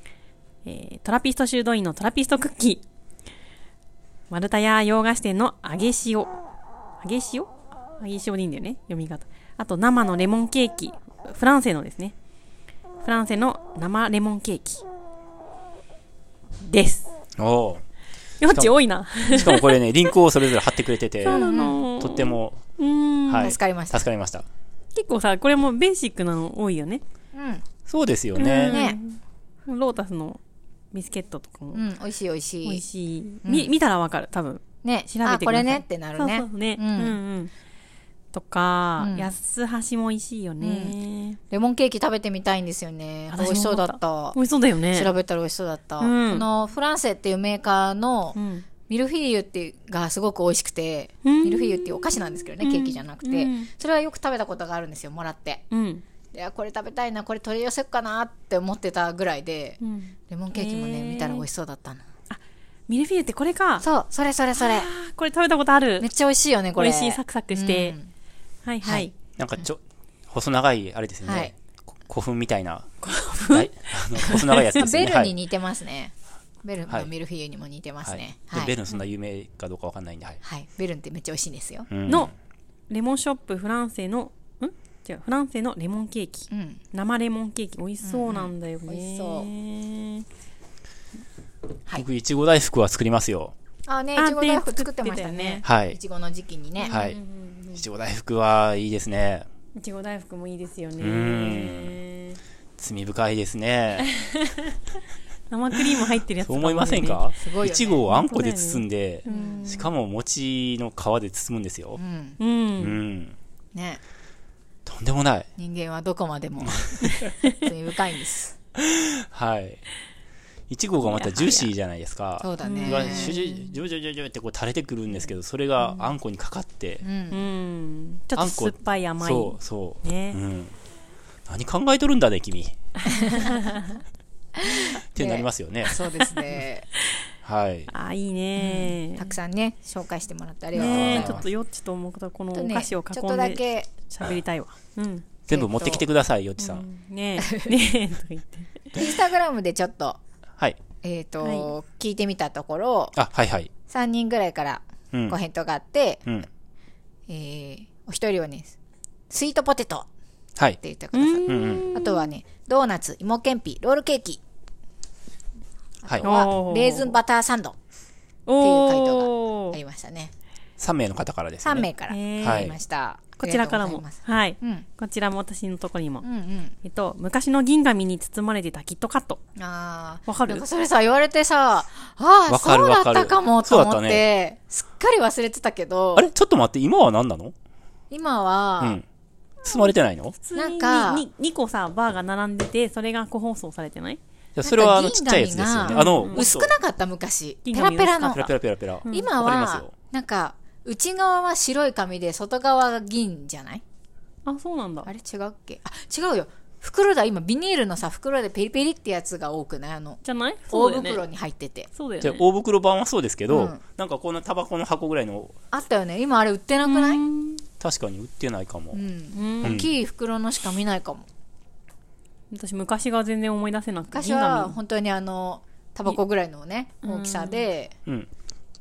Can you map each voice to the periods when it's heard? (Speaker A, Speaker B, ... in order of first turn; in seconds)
Speaker A: 0.6-2.8, 4.3-6.3, 7.0-12.1, 13.0-14.8, 16.6-17.1, 18.4-19.8, 21.2-23.6, 24.9-27.0, 28.4-30.4, 30.9-31.8, 32.6-37.5, 38.3-41.4, 43.3-45.1, 46.0-46.5, 48.4-48.6, 51.2-52.0, 52.6-53.7, 55.7-56.0, 59.8-61.4, 62.3-63.8, 64.5-66.1, 66.8-68.0, 68.6-69.1, 73.0-74.8, 82.1-82.3, 82.9-90.2, 94.2-95.6, 96.8-97.8, 99.8-102.4, 104.0-104.8, 105.5-107.2, 108.1-109.9, 112.4-113.0, 121.0-121.7, 122.6-123.8, 127.3-130.4, 133.0-134.0, 137.9-139.3, 140.7-145.3, 146.6-148.9, 151.4-151.7, 161.1-162.3, 166.2-167.2, 168.5-169.8, 172.1-172.7, 173.4-176.2, 176.8-179.4, 180.3-180.6, 190.4-194.2, 195.9-196.4, 197.7-198.5, 199.1-199.3, 204.4-205.1, 210.2-211.2, 211.9-212.4, 216.8-217.6, 219.3-219.8, 222.5-224.8, 227.0-227.7
Speaker B: 17.4-17.8, 19.3-22.6, 23.3-24.4, 27.9-28.8, 69.4-72.9, 73.4-75.3, 78.0-80.4, 81.9-82.3, 92.0-93.5, 95.6-96.0, 96.9-97.2, 97.7-99.5, 101.0-102.0, 102.8-104.1, 106.4-112.0, 112.8-113.3, 114.8-115.5, 116.7-117.3, 118.8-119.8, 120.7-127.0, 128.3-130.7, 131.5-132.8, 135.1-136.0, 137.4-137.9, 140.8-141.4, 145.5-146.8, 153.1-153.7, 161.5-161.9, 170.8-171.9, 172.4-172.7, 182.5-184.2, 186.2-187.5, 189.6-190.3, 194.6-196.7, 198.3-199.9, 212.2-215.6, 217.8-219.0, 219.6-219.9
Speaker C: 21.2-21.8, 23.4-24.0, 27.3-27.6, 28.7-29.0, 31.7-32.8, 33.4-33.7, 34.8-37.2, 39.0-39.3, 40.6-41.0, 41.5-44.4, 44.9-55.6, 56.3-62.0, 63.8-64.9, 66.0-68.1, 71.2-71.5, 74.3-78.7, 80.4-81.9, 86.5-86.8, 88.0-89.5, 93.9-97.0, 107.4-108.1, 109.3-109.9, 112.0-112.4, 113.7-114.0, 115.6-118.5, 122.4-123.3, 127.0-127.5, 133.1-133.8, 134.6-136.9, 138.6-141.4, 142.5-143.9, 145.5-146.0, 147.4-147.7, 148.9-150.2, 151.0-153.1, 153.9-156.2, 157.3-158.7, 159.3-160.1, 160.8-164.4, 166.0-167.8, 168.6-170.3, 171.6-174.8, 176.2-176.7, 179.6-186.3, 188.1-189.0, 190.5-191.2, 194.6-198.5, 199.1-203.8, 205.0-211.9, 213.5-213.8, 215.7-217.2, 218.9-221.2, 224.1-227.9